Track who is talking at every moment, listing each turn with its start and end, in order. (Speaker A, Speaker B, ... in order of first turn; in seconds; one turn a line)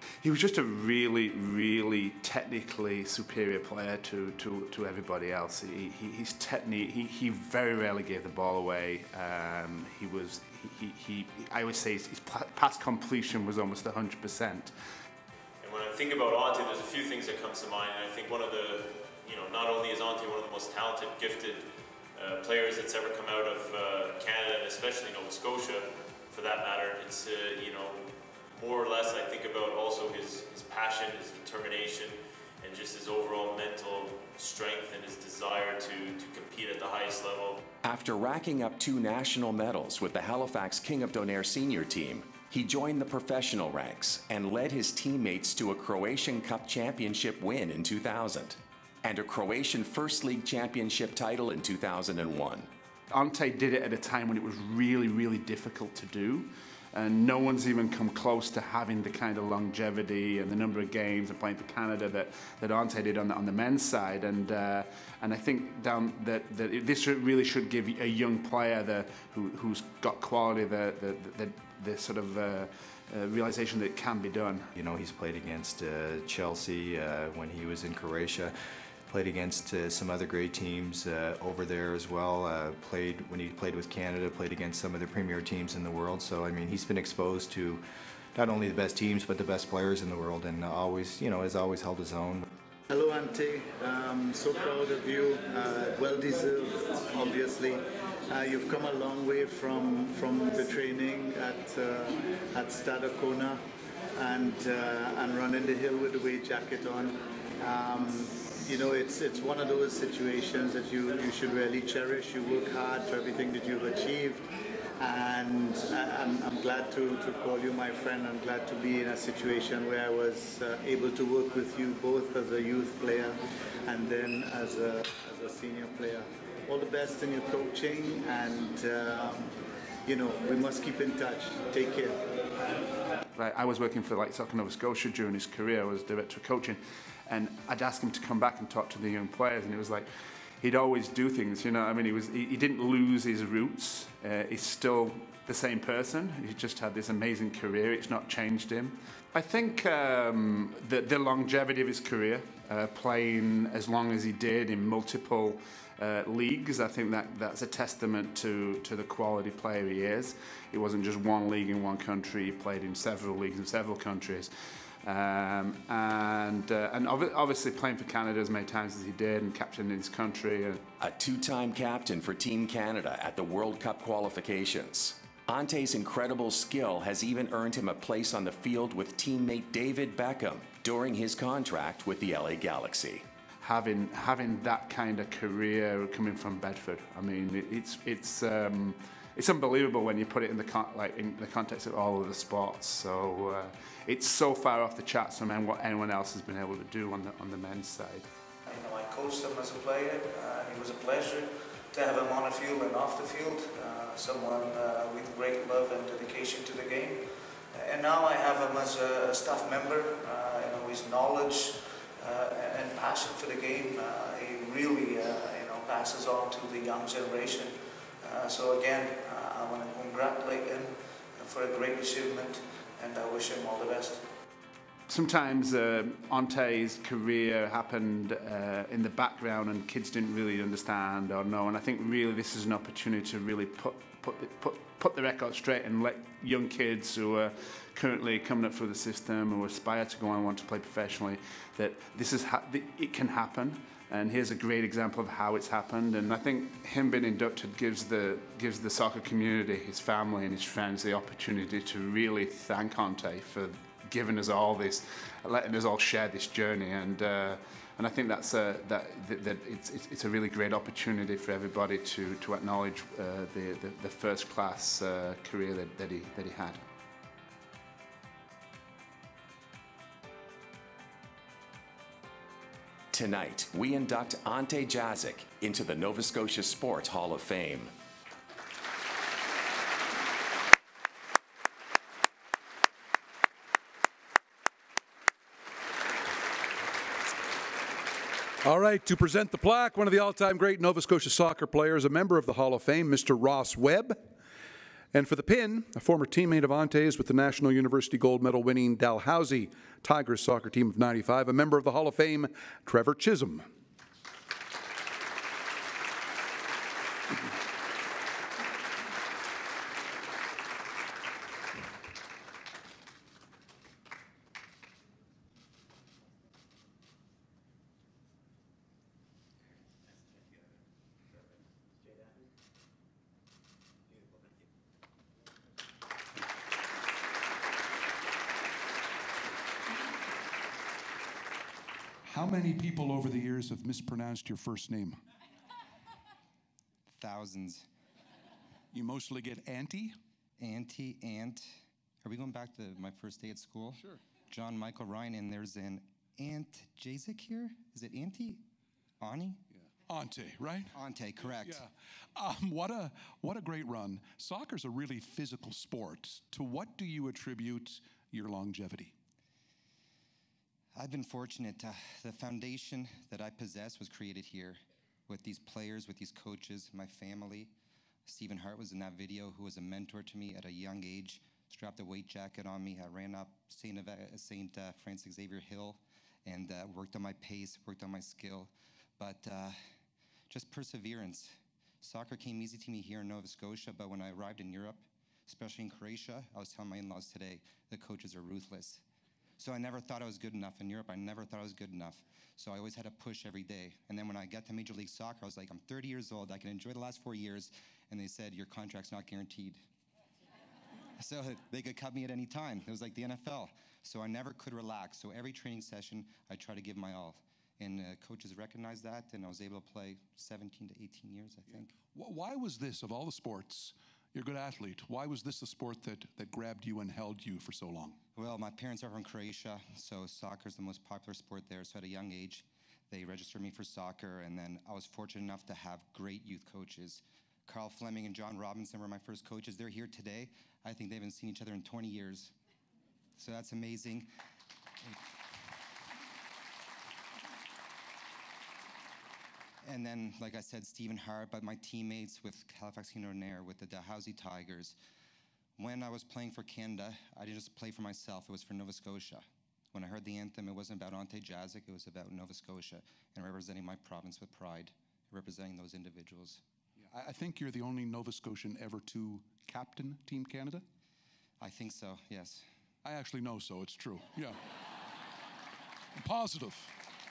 Speaker A: 0.2-14.7
Speaker B: 15.6-37.6
Speaker C: 37.9-52.7
Speaker A: 53.1-74.7
Speaker D: 74.8-78.5
Speaker D: 79.1-87.8
Speaker D: 88.3-92.5
Speaker E: 92.9-103.6
Speaker E: 104.2-114.5
Speaker E: 115.0-129.5
Speaker E: 130.1-132.2
Speaker A: 133.3-140.1
Speaker A: 140.6-164.5
Speaker A: 165.0-170.8
Speaker C: 171.0-183.2
Speaker A: 183.6-198.3
Speaker F: 198.7-224.3
Speaker A: 225.1-266.8
Speaker C: 273.1-277.9
Speaker G: 288.6-294.2
Speaker G: 295.1-303.7
Speaker G: 332.2-335.2
Speaker H: 337.1-337.9
Speaker G: 338.9-340.2
Speaker H: 340.6-341.7
Speaker H: 342.2-348.6
Speaker H: 349.2-349.6
Speaker G: 349.7-359.1
Speaker H: 350.9-351.8
Speaker H: 360.9-367.7
Speaker H: 368.3-379.8
Speaker H: 380.5-389.0
Speaker H: 389.6-399.8
Speaker H: 401.2-411.9
Speaker G: 412.0-418.2
Speaker H: 418.4-432.5
Speaker H: 433.4-434.3
Speaker H: 439.8-445.0
Speaker H: 445.8-456.6
Speaker G: 457.0-460.9
Speaker H: 461.6-462.6
Speaker G: 463.0-464.6
Speaker G: 466.2-466.9